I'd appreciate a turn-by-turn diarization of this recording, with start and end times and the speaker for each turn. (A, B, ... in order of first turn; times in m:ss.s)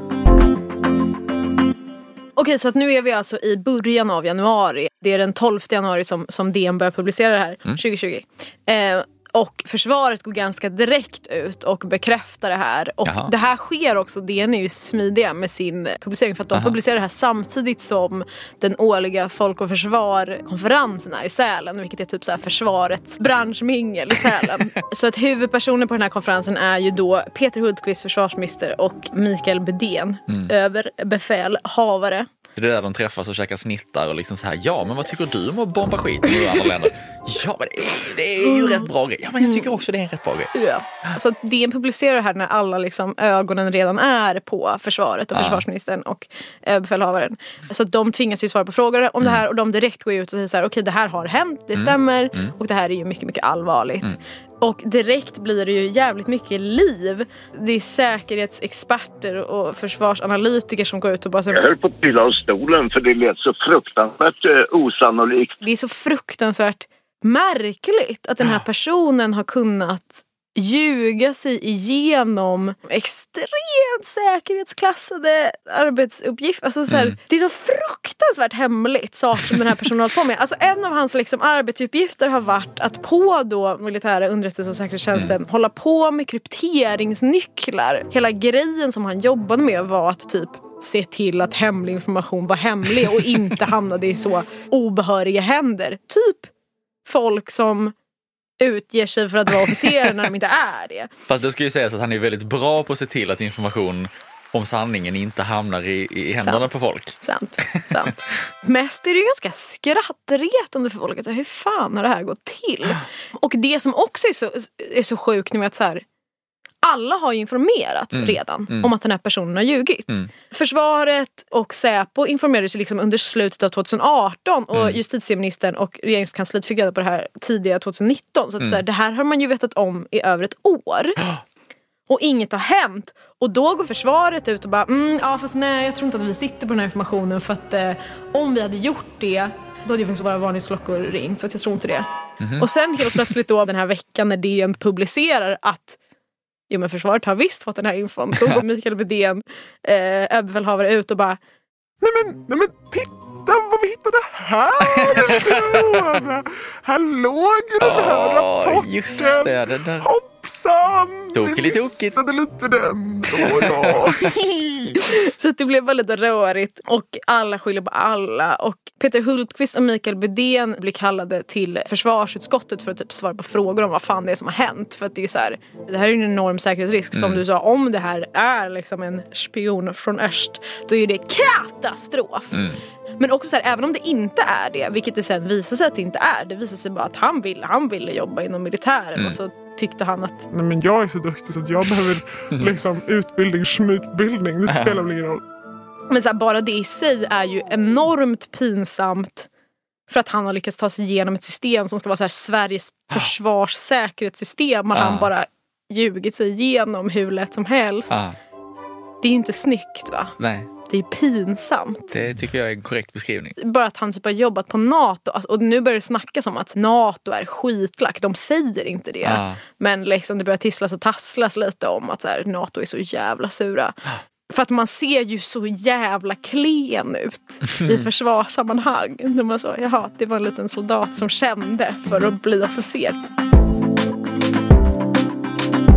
0:02.4-0:32.3 A
0:13.0-0:13.3 B
0:32.6-0:40.5 B
0:36.3-0:36.7 A
0:38.4-0:38.9 A
0:39.4-0:39.7 A
0:40.5-1:01.6 A
0:45.3-0:45.6 B
0:51.8-0:52.5 B
1:01.5-1:05.6 C
1:05.6-1:36.5 A
1:37.0-1:37.9 A
1:38.6-1:41.1 A
1:41.3-1:47.2 B
1:46.4-1:46.7 A
1:47.2-1:56.0 A
1:47.7-1:48.1 B
1:56.8-2:11.2 A
1:58.1-1:58.9 B
2:12.1-2:26.0 A
2:22.4-2:23.2 B
2:26.7-2:31.4 A
2:32.0-2:45.0 D
2:34.9-2:35.8 B
2:37.8-2:40.1 B
2:41.3-2:42.2 B
2:43.4-2:43.7 B
2:45.0-3:02.6 A
2:57.1-2:57.4 B
3:02.5-3:02.8 B
3:03.2-3:10.5 A
3:10.5-3:15.4 D
3:14.7-3:15.0 B
3:16.1-3:19.5 A
3:20.1-3:28.1 A
3:24.9-3:25.3 B
3:28.1-3:28.4 B
3:29.2-3:30.3 A
3:30.4-3:30.7 B
3:30.9-3:32.1 A
3:32.1-3:33.6 B
3:33.6-3:44.0 A
3:39.2-3:39.6 B
3:44.5-3:53.2 A
3:47.7-3:48.1 B